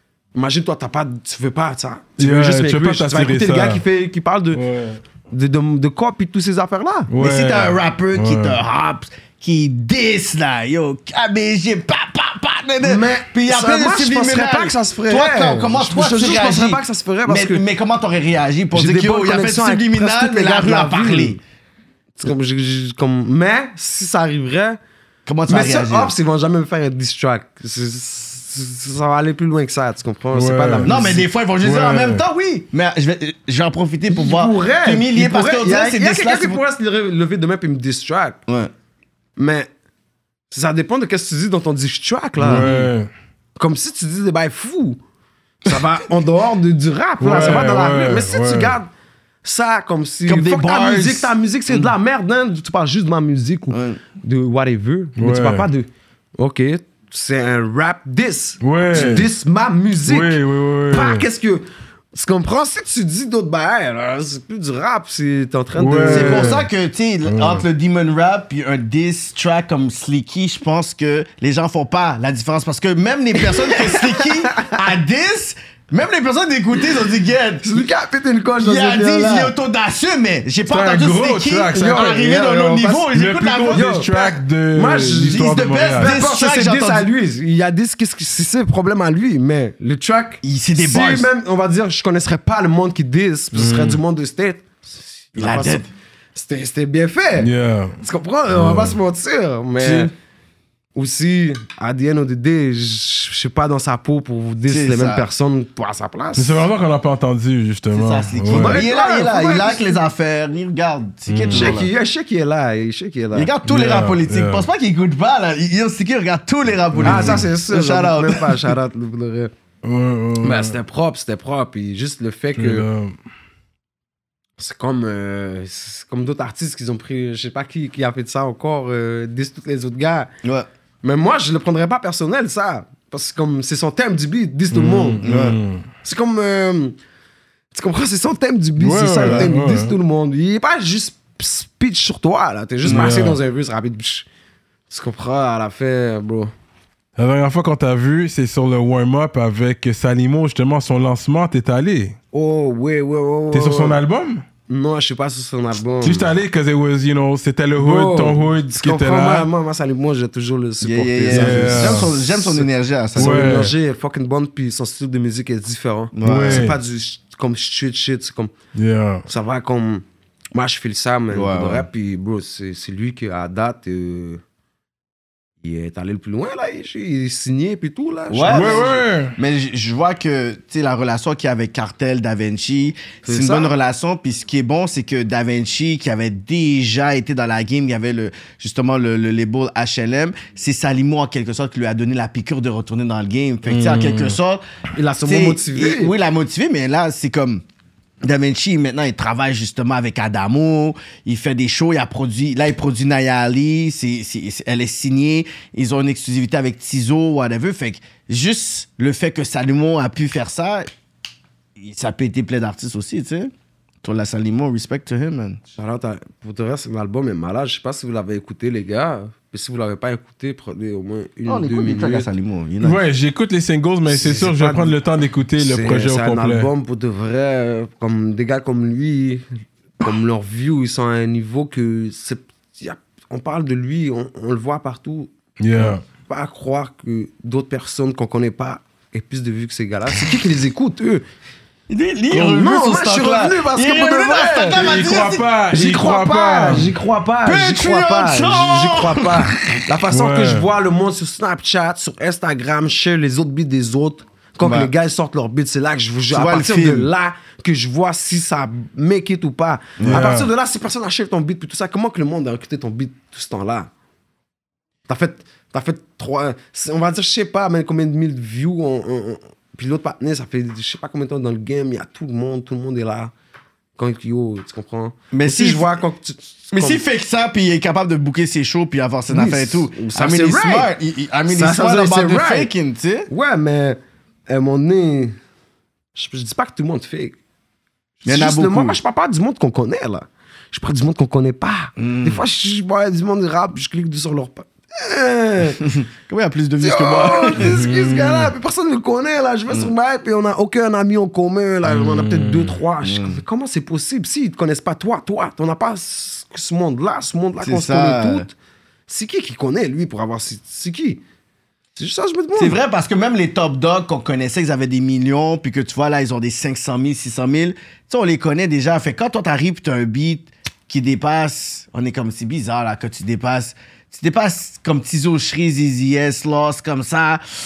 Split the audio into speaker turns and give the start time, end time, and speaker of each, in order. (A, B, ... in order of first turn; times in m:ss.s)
0:00.4-0:04.6 A
0:02.2-0:03.8 B
0:04.5-0:05.0 B
0:05.3-0:07.1 A
0:07.1-0:08.6 B
0:07.2-0:21.4 C
0:12.8-0:17.6 A
0:18.7-0:21.4 A
0:22.2-0:24.8 A
0:25.3-0:26.1 C
0:25.5-0:31.3 A
0:30.3-0:31.0 B
0:30.8-0:36.6 C
0:31.6-0:32.2 B
0:34.1-0:38.4 A
0:39.4-0:39.7 A
0:40.5-0:42.7 A
0:42.4-0:43.1 B
0:42.5-0:42.9 C
0:43.6-0:45.0 A
0:45.6-0:48.9 A
0:47.2-0:48.8 B
0:49.4-1:06.6 A
0:50.3-0:51.9 C
0:53.7-0:54.0 C
0:55.2-0:55.7 B
0:58.6-0:59.3 B
0:58.9-0:59.3 C
1:00.1-1:01.3 B
1:05.8-1:06.7 B
1:06.0-1:17.8 C
1:07.2-1:07.7 B
1:13.4-1:14.8 A
1:17.6-1:19.5 A
1:18.6-1:23.9 C
1:20.7-1:22.2 B
1:21.7-1:23.1 A
1:23.1-1:26.2 B
1:23.7-1:40.1 A
1:25.3-1:27.1 C
1:30.4-1:31.3 C
1:33.5-1:34.0 B
1:35.4-1:35.9 C
1:37.4-1:38.0 B
1:38.5-1:39.0 B
1:39.8-1:40.1 C
1:41.0-1:46.7 A
1:44.7-1:45.3 C
1:46.4-1:48.8 B
1:47.9-1:51.9 C
1:48.5-1:49.9 A
1:51.3-1:51.8 B
1:51.5-1:53.5 A
1:53.3-1:58.7 C
1:53.6-1:54.7 B
1:56.9-1:57.5 B
1:57.0-1:59.5 A
1:59.8-2:00.8 B
2:00.4-2:02.9 A
2:02.6-2:03.2 B
2:04.6-2:10.3 A
2:11.0-2:15.3 A
2:14.7-2:15.9 B
2:15.2-2:15.6 C
2:16.0-2:17.0 A
2:17.7-2:24.3 A
2:18.8-2:20.0 B
2:19.2-2:19.5 C
2:22.8-2:23.1 C
2:22.8-2:23.4 B
2:24.9-2:26.5 A
2:27.2-2:32.2 B
2:32.3-2:34.0 A
2:33.5-2:34.4 B
2:34.7-2:36.3 A
2:36.0-2:39.5 B
2:37.8-2:48.5 A
2:40.8-2:43.7 C
2:41.3-2:42.1 B
2:43.2-2:43.7 B
2:46.1-2:46.7 C
2:46.2-2:46.8 B
2:48.7-2:49.3 B
2:49.3-2:54.4 A
2:51.3-2:51.9 C
2:55.6-2:59.0 A
2:58.3-3:14.6 C
2:58.5-2:59.4 B
3:03.2-3:03.7 A
3:13.7-3:14.4 B
3:15.0-3:16.1 A
3:15.2-3:17.6 C
3:18.2-3:30.9 C
3:31.8-3:33.5 C
3:34.0-3:35.6 C
3:35.8-3:42.3 A
3:41.5-3:43.0 C
3:42.8-3:46.7 B
3:44.1-3:45.0 A
3:45.6-3:49.4 A
3:50.0-4:01.2 A
3:55.6-3:56.0 B
4:01.9-4:05.5 C
4:02.3-4:05.1 A
4:04.7-4:06.9 B
4:05.7-4:23.9 A
4:07.4-4:09.8 C
4:10.1-4:10.7 B
4:14.6-4:14.9 C
4:16.3-4:17.1 C
4:20.0-4:20.3 C
4:20.0-4:20.5 B
4:25.1-4:33.3 A
4:34.0-4:37.0 A
4:35.3-4:36.0 C
4:36.7-4:43.3 C
4:39.3-4:40.9 A
4:41.5-4:42.7 A
4:43.3-4:45.4 A
4:46.2-4:47.4 A
4:48.2-4:55.9 A
4:48.2-4:49.0 C
4:52.0-4:52.4 C
4:55.8-4:57.8 C
4:56.8-5:08.5 A
4:57.6-4:58.5 B
5:01.9-5:02.8 B
5:03.0-5:03.4 C
5:07.6-5:08.5 C
5:09.1-5:11.2 A
5:12.0-5:12.8 A
5:12.6-5:27.4 C